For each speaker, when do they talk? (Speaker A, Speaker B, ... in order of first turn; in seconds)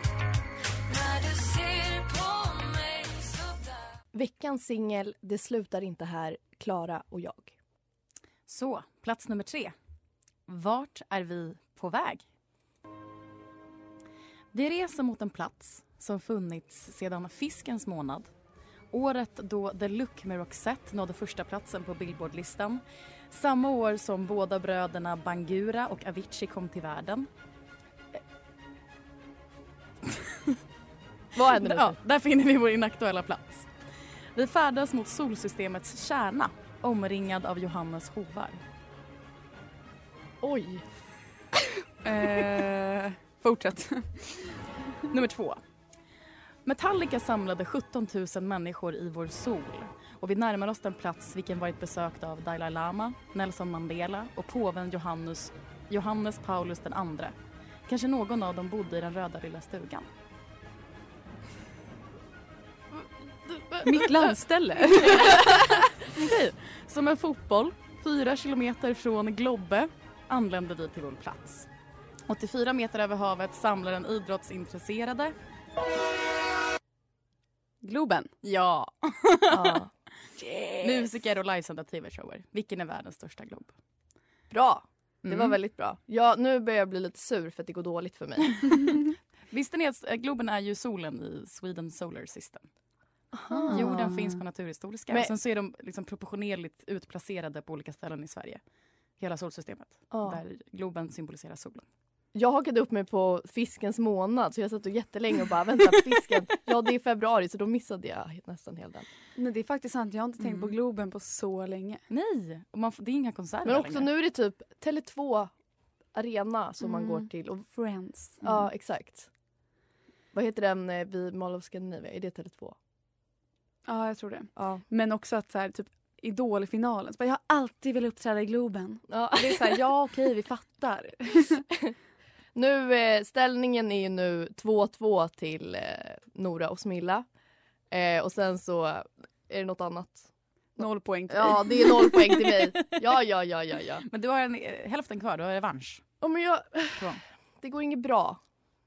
Speaker A: 4.1-7.5, 31.4-32.0, 40.4-40.8, 63.5-64.1, 65.2-65.8, 79.5-79.9, 84.5-89.0, 93.3-94.1, 100.1-100.4, 102.3-109.1, 113.6-115.5, 116.1-117.6, 118.4-119.3, 120.3-122.8, 124.5-124.8, 129.1-129.8, 132.5-137.2, 137.9-140.3, 141.3-144.0, 146.2-148.4
Speaker B: 8.5-9.7, 10.5-12.2, 14.5-18.3, 18.9-27.3, 30.1-30.6, 31.5-33.7, 34.3-38.6, 45.1-45.6, 46.6-57.3, 57.9-60.1, 65.0-71.7, 72.3-75.3, 78.4-79.8, 80.8-83.7, 85.2-85.6, 89.5-92.6, 93.7-98.6, 99.2-101.8, 110.4-110.7, 112.1-114.1, 144.1-146.0, 147.0-147.2
Speaker C: 42.0-44.6, 63.8-65.5, 77.8-78.3, 93.5-94.1, 109.3-112.0, 116.8-118.5, 123.9-131.6, 140.8-142.1